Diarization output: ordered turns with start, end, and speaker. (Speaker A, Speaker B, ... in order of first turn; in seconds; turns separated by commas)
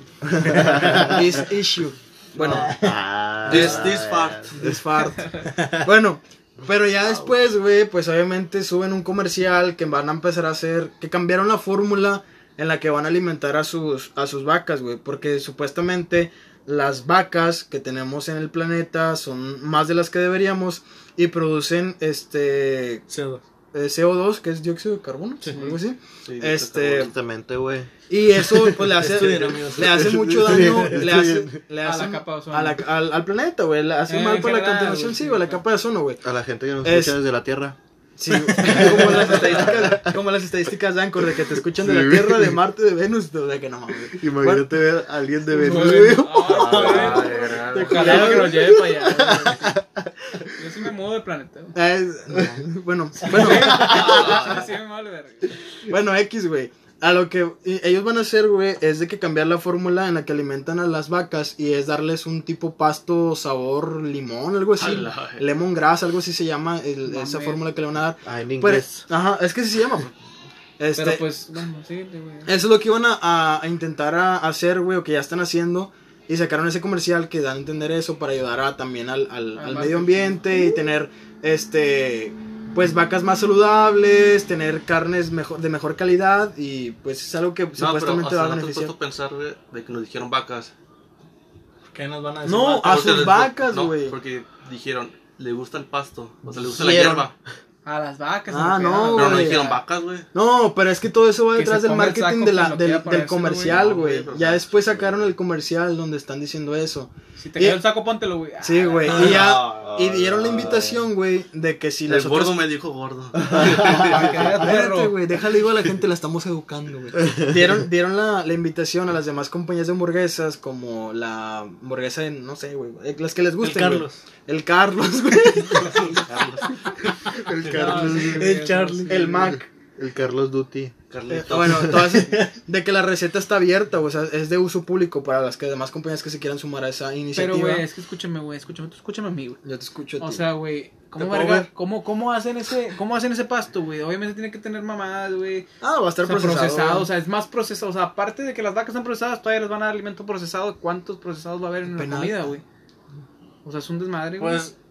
Speaker A: 0.4-1.4, Speaker B: 0.5-1.2, Speaker C: 0.5-2.8, Speaker A: 2.4-3.0, Speaker B: 2.4-4.8, Speaker D: 3.5-4.5, Speaker A: 3.5-3.9, Speaker C: 3.5-23.1, Speaker E: 5.1-5.5, Speaker A: 5.5-5.9, Speaker D: 7.0-7.3, Speaker A: 23.1-23.4, Speaker C: 23.7-27.1, Speaker E: 25.5-25.8, Speaker D: 26.2-27.1, Speaker B: 26.9-31.6, Speaker C: 28.1-36.2, Speaker A: 28.9-31.1, Speaker E: 31.8-32.8, Speaker E: 34.1-35.6, Speaker B: 36.2-37.8, Speaker C: 36.8-37.2, Speaker C: 38.2-44.7, Speaker B: 38.5-40.2, Speaker D: 39.3-39.9, Speaker B: 41.7-42.6, Speaker B: 44.1-47.5, Speaker E: 45.5-49.8, Speaker C: 45.6-46.2, Speaker D: 46.5-48.4, Speaker A: 46.6-48.5, Speaker C: 47.7-48.8, Speaker B: 48.5-50.1, Speaker E: 50.5-51.8, Speaker C: 51.8-54.5, Speaker E: 53.2-55.5, Speaker B: 53.6-54.3, Speaker D: 53.8-54.7, Speaker C: 55.9-70.1, Speaker D: 64.8-65.5, Speaker E: 67.1-67.6, Speaker B: 68.2-69.1, Speaker C: 70.8-71.2, Speaker E: 71.0-72.5, Speaker C: 72.5-88.9, Speaker E: 79.6-80.8, Speaker D: 87.8-90.7, Speaker A: 91.9-93.0, Speaker C: 92.4-94.2, Speaker D: 92.8-97.3, Speaker B: 96.7-97.3, Speaker E: 97.8-99.8, Speaker C: 98.5-99.7, Speaker D: 99.1-100.3, Speaker C: 100.3-107.8, Speaker E: 101.5-103.8, Speaker D: 103.6-105.0, Speaker E: 107.4-109.4, Speaker C: 108.6-112.6, Speaker D: 109.0-109.9, Speaker B: 109.2-111.1, Speaker D: 112.1-114.5, Speaker B: 113.5-114.1, Speaker E: 113.6-115.2, Speaker C: 114.0-126.4, Speaker A: 123.6-124.2, Speaker D: 125.7-126.5, Speaker B: 127.3-128.5, Speaker E: 127.7-129.6, Speaker A: 127.7-129.4, Speaker C: 129.1-129.7, Speaker B: 129.5-130.9, Speaker D: 131.1-132.1, Speaker C: 131.3-137.8, Speaker B: 131.5-132.3, Speaker A: 132.2-132.5, Speaker E: 137.3-139.6, Speaker C: 139.6-140.4, Speaker E: 140.2-145.7, Speaker A: 141.2-141.7, Speaker C: 145.8-147.1, Speaker E: 146.2-152.6, Speaker C: 151.9-152.4, Speaker E: 153.7-154.7, Speaker A: 154.4-154.7